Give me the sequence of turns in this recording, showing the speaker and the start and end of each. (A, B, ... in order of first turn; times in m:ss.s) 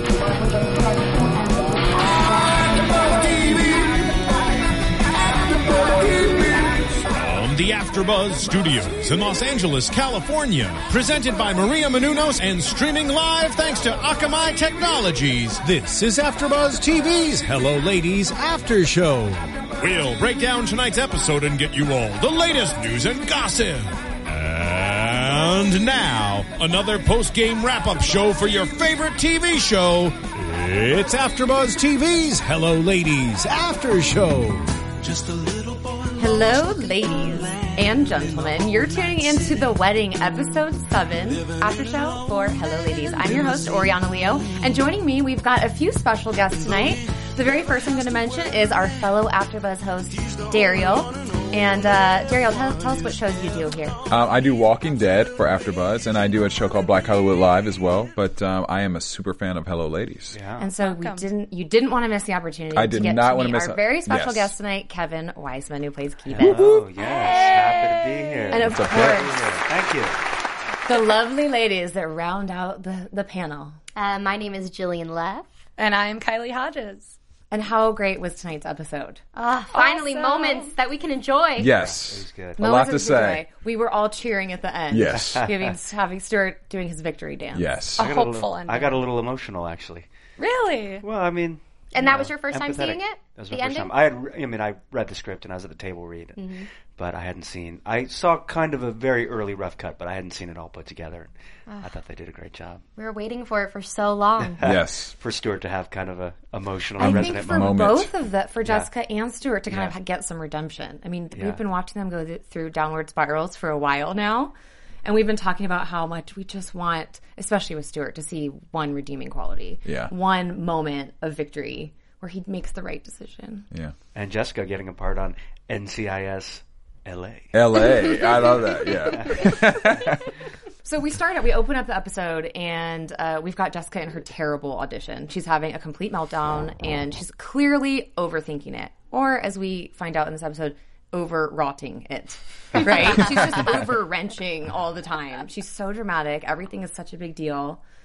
0:02.7-0:04.1 A
0:06.0-0:35.8 A
0:36.1-0:54.0 B
0:54.1-1:00.4 C
1:00.3-1:00.7 D
1:00.6-1:06.7 B
1:00.8-1:01.3 E
1:02.7-1:04.5 C
1:06.3-1:10.2 D
1:08.5-1:09.4 B
1:08.6-1:09.2 C
1:10.8-1:13.8 B
1:14.0-1:15.5 F
1:15.8-1:17.1 E
1:17.5-1:19.2 B
1:19.3-1:21.8 F
1:19.7-1:20.7 E
1:21.6-1:23.4 C
1:21.7-1:22.6 D
1:22.6-1:27.8 B
1:24.9-1:25.4 C
1:25.1-1:25.7 D
1:27.5-1:28.1 C
1:28.0-1:30.1 D
1:28.0-1:29.0 E
1:30.4-1:31.0 E
1:31.0-1:41.3 D
1:31.9-1:33.9 F
1:36.4-1:36.7 F
1:41.8-1:42.8 D
1:43.0-1:44.6 F
1:44.4-1:47.8 D
1:44.6-1:45.1 C
1:47.0-2:03.6 B
1:47.0-1:48.1 C
1:48.6-1:48.9 D
1:51.3-1:51.6 D
1:59.8-2:00.1 C
2:04.1-2:08.1 D
2:07.5-2:10.2 C
2:09.1-2:09.6 D
2:10.8-2:27.8 B